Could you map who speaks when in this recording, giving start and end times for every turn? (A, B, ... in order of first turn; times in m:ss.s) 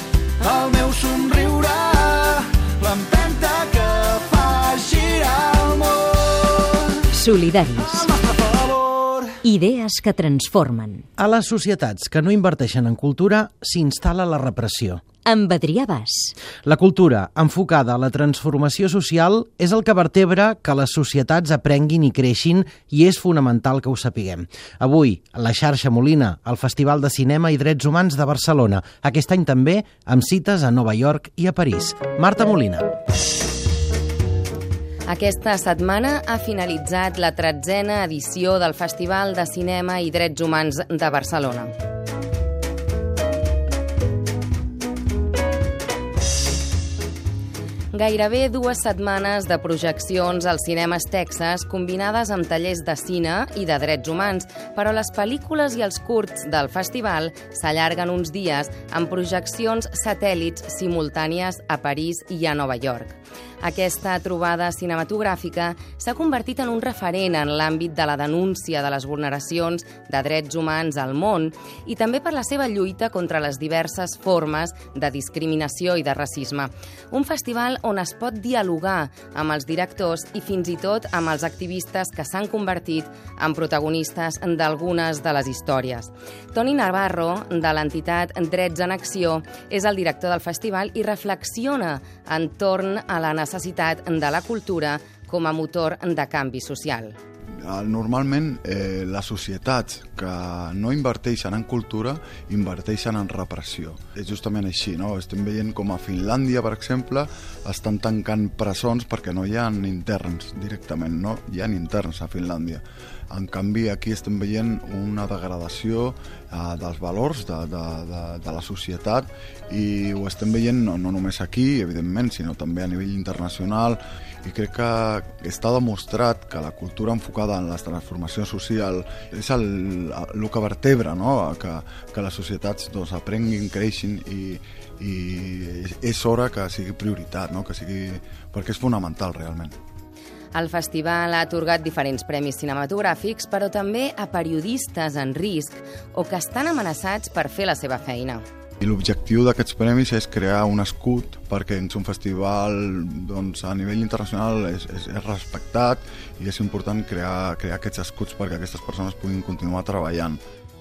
0:00.4-0:07.0 A
0:07.1-0:08.1 B
0:07.8-0:09.4 A
0:09.4-0:11.0 B
0:11.2-0:15.0 C
0:15.2-0:16.3 B
0:16.6-0:32.9 C
0:35.1-0:41.7 D
0:47.9-1:37.2 D
1:37.6-2:19.8 E
2:20.5-2:28.4 D
2:28.8-2:40.4 E